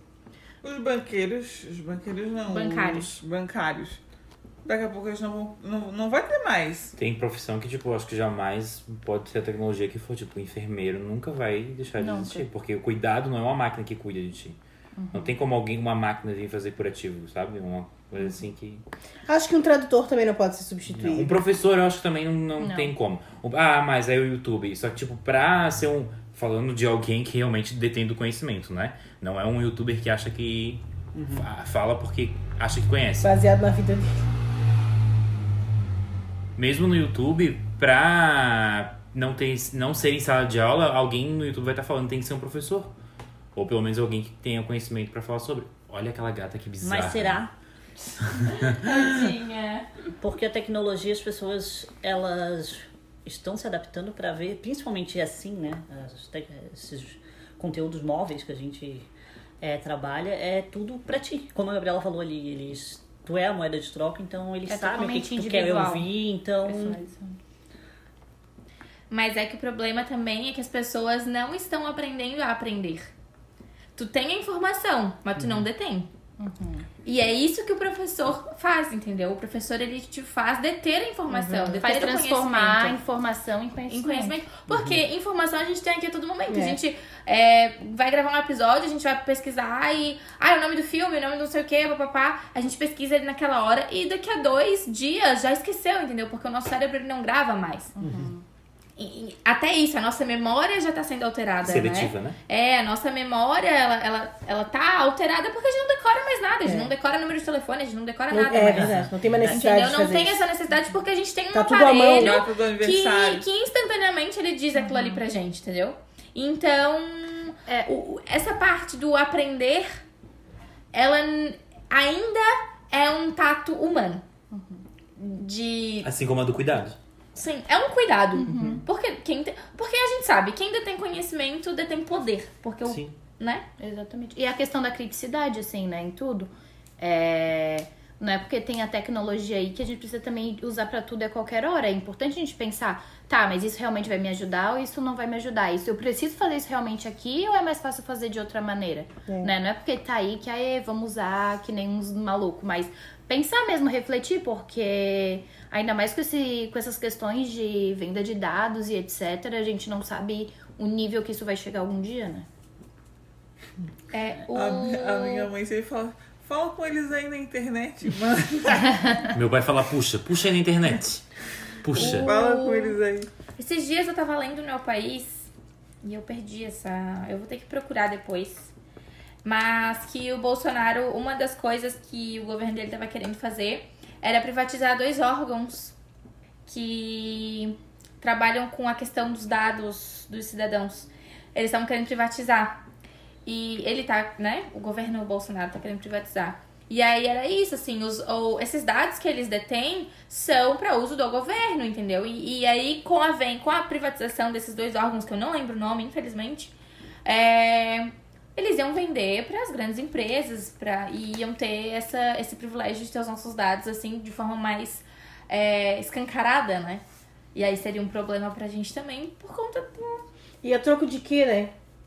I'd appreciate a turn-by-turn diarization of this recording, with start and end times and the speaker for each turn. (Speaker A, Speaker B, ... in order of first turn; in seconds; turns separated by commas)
Speaker A: 0.6-4.0, Speaker B: 2.5-3.1, Speaker A: 4.6-6.9, Speaker C: 7.0-14.6, Speaker D: 12.0-12.4, Speaker D: 14.9-15.4, Speaker C: 15.1-18.8, Speaker E: 19.3-21.4, Speaker C: 20.9-33.3, Speaker D: 22.6-22.9, Speaker E: 33.2-34.2, Speaker C: 36.6-42.9, Speaker C: 43.5-47.4, Speaker F: 46.8-47.5, Speaker C: 48.2-49.3, Speaker B: 48.5-49.9, Speaker F: 50.2-59.1, Speaker F: 59.6-67.0, Speaker D: 64.7-66.1, Speaker D: 66.6-67.3, Speaker B: 69.1-73.1, Speaker B: 74.0-76.1, Speaker D: 76.4-76.8, Speaker B: 77.0-83.0, Speaker E: 81.3-81.8, Speaker D: 81.7-84.4, Speaker B: 83.9-97.9, Speaker E: 86.5-86.8, Speaker D: 98.0-98.4, Speaker B: 99.0-120.0, Speaker C: 101.6-102.4, Speaker E: 106.6-106.9, Speaker E: 108.3-110.5, Speaker F: 108.6-109.6, Speaker E: 111.5-112.4, Speaker A: 112.1-113.5, Speaker D: 114.8-115.2, Speaker B: 120.9-124.2, Speaker D: 124.5-124.8, Speaker B: 125.2-126.1, Speaker C: 126.0-127.0, Speaker B: 127.3-133.7, Speaker D: 128.4-128.8, Speaker C: 128.5-128.8, Speaker C: 132.8-133.1, Speaker D: 133.8-162.5, Speaker B: 164.1-165.5, Speaker A: 164.5-168.9, Speaker C: 169.3-171.2, Speaker C: 171.8-172.3, Speaker B: 171.9-173.0, Speaker A: 171.9-173.3, Speaker B: 173.6-175.5, Speaker B: 176.0-178.7, Speaker B: 179.4-185.9, Speaker B: 186.7-192.8, Speaker B: 193.4-206.7, Speaker B: 207.2-217.0, Speaker B: 217.5-220.2, Speaker E: 220.6-221.7